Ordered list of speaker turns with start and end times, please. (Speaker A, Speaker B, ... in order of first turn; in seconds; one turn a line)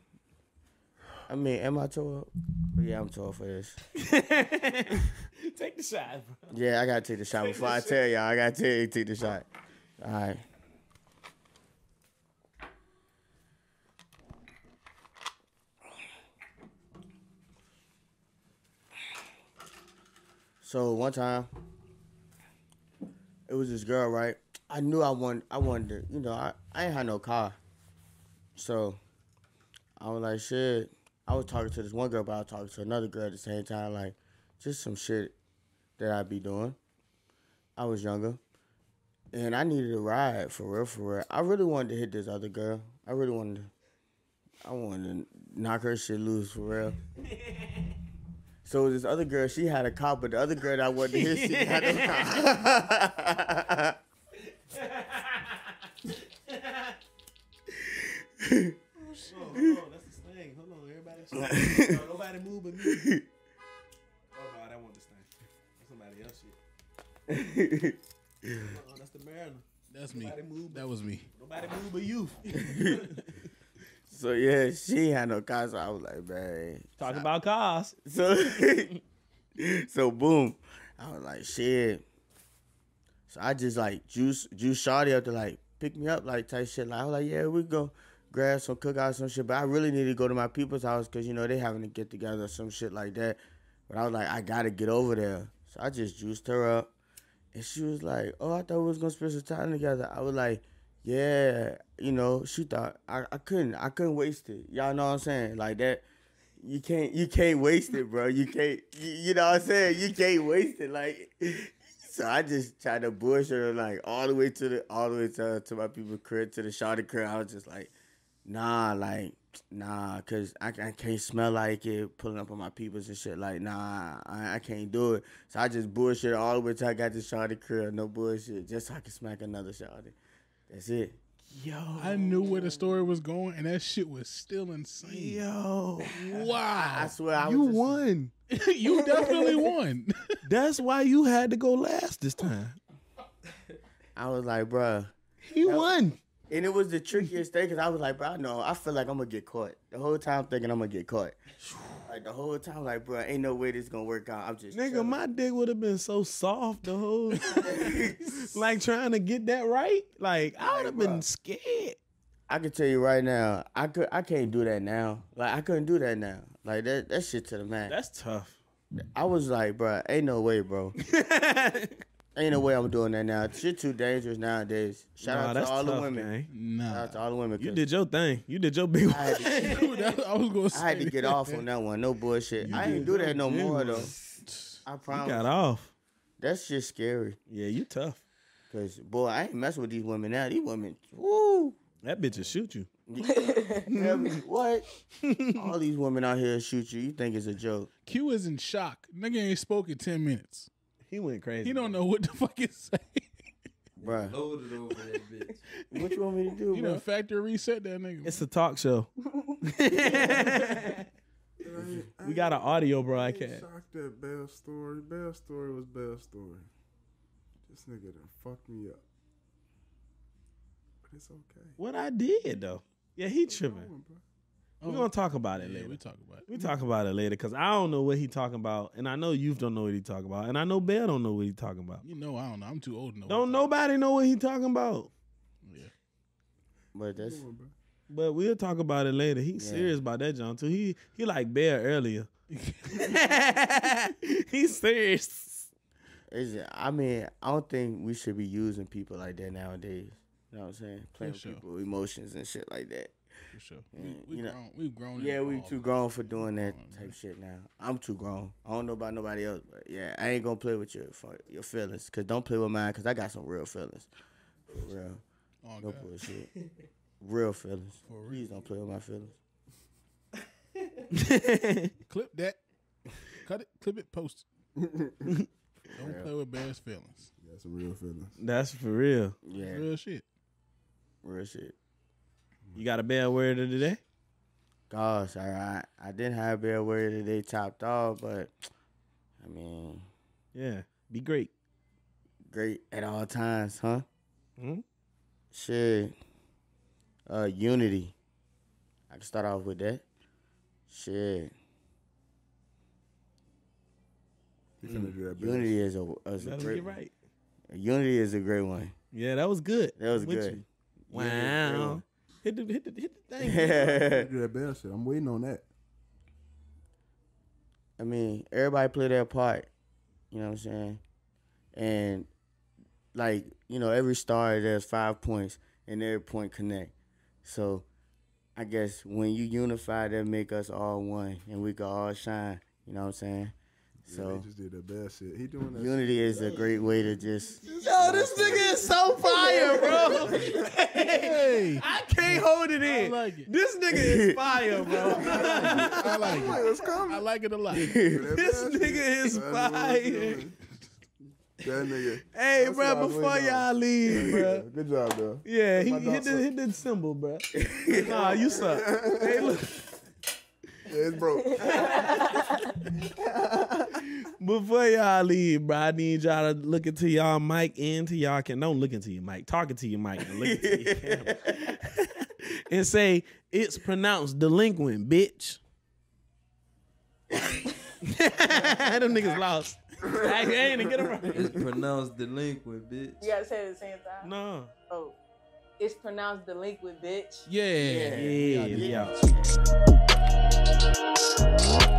Speaker A: 1.3-3.8
Speaker B: 4.0-6.5
Speaker A: 6.5-9.4
Speaker B: 7.3-8.0
Speaker A: 10.0-10.4
Speaker A: 20.6-21.5
Speaker A: 23.5-27.6
Speaker A: 28.5-29.0
Speaker A: 30.0-35.4
Speaker A: 36.0-36.8
Speaker A: 37.8-38.4
Speaker A: 39.3-43.7
Speaker A: 44.6-47.0
Speaker A: 48.6-54.0
Speaker B: 51.1-52.2
Speaker B: 54.7-57.0
Speaker A: 58.4-58.8
Speaker B: 59.2-63.0
Speaker A: 61.4-62.0
Speaker A: 62.8-63.2
Speaker B: 64.3-66.6
Speaker A: 67.3-68.7
Speaker B: 68.5-73.3
Speaker C: 69.9-71.3
Speaker A: 72.5-73.1
Speaker A: 74.1-77.2
Speaker B: 77.0-78.0
Speaker A: 78.0-79.0
Speaker A: 79.6-82.0
Speaker A: 83.3-96.9
Speaker A: 97.5-106.0
Speaker A: 106.6-117.9
Speaker A: 118.5-130.1
Speaker A: 130.7-131.2
Speaker B: 131.5-132.9
Speaker C: 132.0-135.4
Speaker B: 135.0-136.5
Speaker C: 136.1-137.2
Speaker A: 136.7-138.1
Speaker B: 137.4-138.3
Speaker C: 138.5-140.4
Speaker A: 138.9-139.7
Speaker B: 140.4-142.8
Speaker A: 144.2-145.9
Speaker B: 145.4-146.2
Speaker A: 146.5-151.4
Speaker A: 152.1-155.2
Speaker B: 154.7-162.0
Speaker A: 157.5-158.5
Speaker A: 160.6-161.2
Speaker A: 162.5-167.9
Speaker B: 167.9-168.6
Speaker A: 169.0-170.9
Speaker B: 171.0-172.0
Speaker A: 172.3-176.3
Speaker B: 175.2-176.5
Speaker C: 176.5-177.2
Speaker A: 176.9-177.8
Speaker B: 177.6-179.8
Speaker A: 179.1-179.8
Speaker C: 179.6-181.6
Speaker A: 180.7-184.1
Speaker C: 182.6-183.4
Speaker B: 182.6-185.9
Speaker A: 184.8-185.6
Speaker A: 186.4-187.4
Speaker B: 187.5-188.2
Speaker A: 188.7-191.8
Speaker B: 192.0-192.9
Speaker A: 193.1-194.8
Speaker D: 193.2-193.9
Speaker B: 193.9-194.4
Speaker B: 195.2-195.6
Speaker A: 195.5-197.9
Speaker C: 198.1-200.7
Speaker B: 201.1-202.0
Speaker C: 201.6-203.3
Speaker A: 204.0-204.3
Speaker E: 204.0-205.6
Speaker A: 205.9-207.0
Speaker C: 206.7-208.4
Speaker B: 208.2-209.1
Speaker B: 209.6-211.0
Speaker F: 211.6-216.7
Speaker A: 211.7-212.1
Speaker B: 212.2-213.7
Speaker F: 217.7-219.0
Speaker F: 221.1-221.8
Speaker B: 221.8-223.9
Speaker F: 223.5-224.2
Speaker C: 224.8-226.7
Speaker B: 224.8-232.0
Speaker C: 232.0-233.7
Speaker B: 233.3-235.1
Speaker C: 235.6-235.9
Speaker A: 236.9-237.4
Speaker F: 237.1-237.7
Speaker B: 238.1-242.3
Speaker A: 239.6-239.9
Speaker C: 242.5-243.2
Speaker B: 242.9-245.7
Speaker A: 246.3-253.1
Speaker C: 251.2-251.6
Speaker C: 253.5-257.1
Speaker A: 253.9-254.6
Speaker A: 255.1-264.1
Speaker A: 264.7-265.2
Speaker C: 265.6-266.1
Speaker A: 265.8-266.5
Speaker A: 267.2-269.4
Speaker C: 268.1-268.4
Speaker B: 271.1-271.9
Speaker C: 272.1-272.6
Speaker C: 273.4-274.4
Speaker F: 274.8-275.3
Speaker C: 275.9-277.3
Speaker A: 275.9-276.3
Speaker F: 277.4-278.4
Speaker B: 278.4-279.4
Speaker A: 279.4-279.9
Speaker C: 279.5-280.2
Speaker A: 281.2-281.7
Speaker B: 282.7-284.0
Speaker A: 284.9-288.5
Speaker A: 289.4-290.1
Speaker B: 290.5-291.5
Speaker A: 292.5-294.1
Speaker B: 294.6-294.8
Speaker A: 295.5-296.1
Speaker A: 297.3-298.1
Speaker A: 299.1-300.0
Speaker A: 300.9-301.5
Speaker F: 304.8-305.7
Speaker A: 304.8-307.0
Speaker B: 306.4-307.1
Speaker A: 307.7-308.9
Speaker B: 309.1-314.0
Speaker A: 310.0-312.0
Speaker A: 313.4-314.3
Speaker F: 313.9-315.6
Speaker A: 318.0-319.7
Speaker A: 320.3-321.0
Speaker A: 321.7-322.3
Speaker A: 323.1-326.9
Speaker A: 327.4-327.9
Speaker A: 328.6-333.5
Speaker F: 334.0-339.0
Speaker A: 334.1-334.5
Speaker A: 335.7-337.6
Speaker B: 337.7-346.5
Speaker A: 339.4-340.6
Speaker F: 340.2-340.6
Speaker C: 341.1-343.5
Speaker A: 343.9-345.3
Speaker F: 344.9-347.2
Speaker C: 345.4-348.0
Speaker A: 347.7-348.3
Speaker F: 348.0-350.6
Speaker B: 348.3-350.4
Speaker F: 351.6-356.5
Speaker B: 352.3-354.6
Speaker B: 355.4-359.9
Speaker A: 357.5-358.4
Speaker F: 357.9-359.6
Speaker F: 360.9-362.1
Speaker D: 361.4-362.7
Speaker B: 361.7-362.7
Speaker F: 363.0-364.0
Speaker B: 364.1-375.6
Speaker A: 370.2-371.8
Speaker B: 378.0-381.6
Speaker F: 380.0-381.5
Speaker E: 381.3-383.3
Speaker D: 383.2-384.3
Speaker B: 384.2-384.7
Speaker D: 384.9-385.1
Speaker D: 385.8-387.5
Speaker C: 387.5-388.9
Speaker A: 387.8-389.7
Speaker B: 388.1-389.3